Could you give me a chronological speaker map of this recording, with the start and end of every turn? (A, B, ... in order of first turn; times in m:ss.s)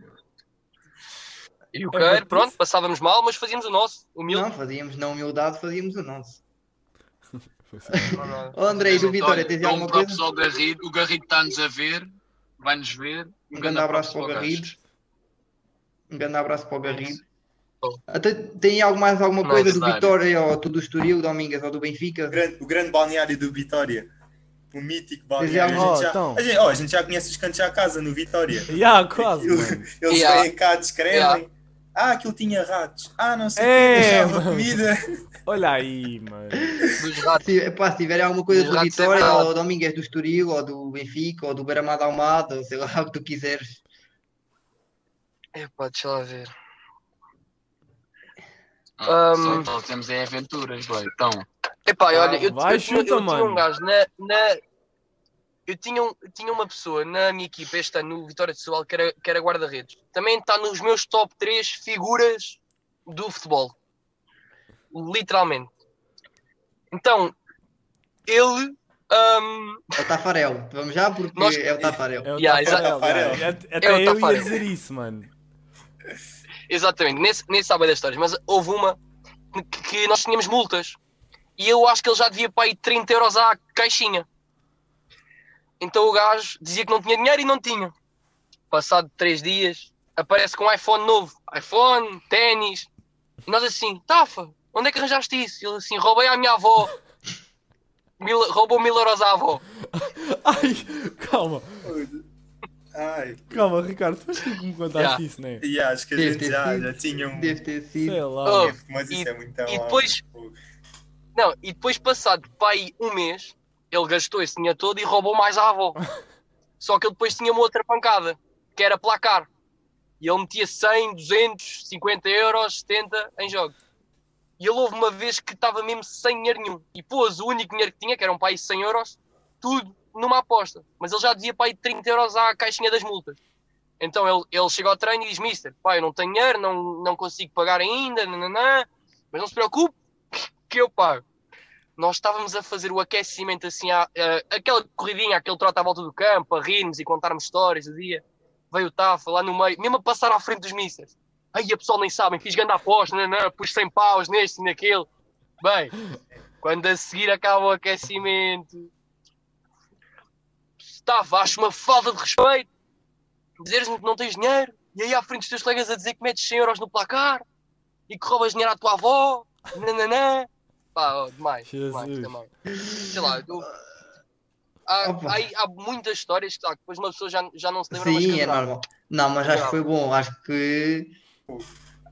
0:01.7-0:04.5 A
0:01.9-0:02.5 B
0:04.3-0:06.4 C
0:07.9-0:10.2 C
0:08.1-0:09.2 A
0:08.8-0:14.7 D
0:13.5-0:14.8 C
0:16.1-0:17.2 C
0:18.1-0:22.4 C
0:19.4-0:19.7 A
0:19.6-0:20.1 D
0:22.3-0:24.1 E
0:24.7-0:35.0 E
0:25.4-0:26.1 C
0:25.7-0:26.4 B
0:28.7-0:29.9 B
0:30.1-0:30.5 A
0:31.1-0:31.4 A
0:33.6-0:34.8 B
0:35.4-0:36.7 B
0:36.5-0:43.8 C
0:37.0-0:37.4 A
0:38.5-0:39.5 A
0:45.5-0:46.5 A
0:49.0-0:51.4 D
0:49.0-0:49.7 A
0:51.8-0:54.6 A
0:52.1-0:52.5 C
0:52.3-0:53.6 B
0:55.6-1:03.7 A
1:04.9-1:05.7 A
1:06.9-1:07.4 A
1:08.3-1:10.0 A
1:10.0-1:12.3 C
1:11.3-1:11.7 A
1:12.2-1:15.3 B
1:12.4-1:12.9 A
1:12.6-1:13.5 E
1:13.8-1:14.6 A
1:16.7-1:19.0 A
1:19.5-1:21.0 A
1:21.6-1:24.2 A
1:25.8-1:27.9 A
1:28.7-1:32.9 A
1:33.4-1:36.9 A
1:38.2-1:39.6 A
1:39.8-1:41.8 B
1:41.8-1:42.2 E
1:42.9-1:43.6 E
1:43.5-1:45.6 B
1:44.9-1:45.2 A
1:45.6-1:47.6 E
1:46.2-1:48.2 C
1:48.0-1:48.7 B
1:48.4-1:50.2 A
1:48.6-1:50.6 E
1:51.3-1:56.0 A
1:56.8-1:59.5 A
2:00.2-2:03.7 A
2:04.6-2:13.4 A
2:14.0-2:21.2 A
2:22.0-2:35.1 A
2:35.6-2:35.9 A
2:36.6-2:38.9 A
2:40.8-2:42.7 A
2:43.6-2:47.4 A
2:48.1-2:52.5 A
2:51.7-2:52.4 B
2:52.8-2:53.2 C
2:53.0-2:53.7 A
2:54.9-2:58.6 A
2:55.0-2:55.4 C
2:57.9-3:01.1 C
2:59.4-2:59.8 A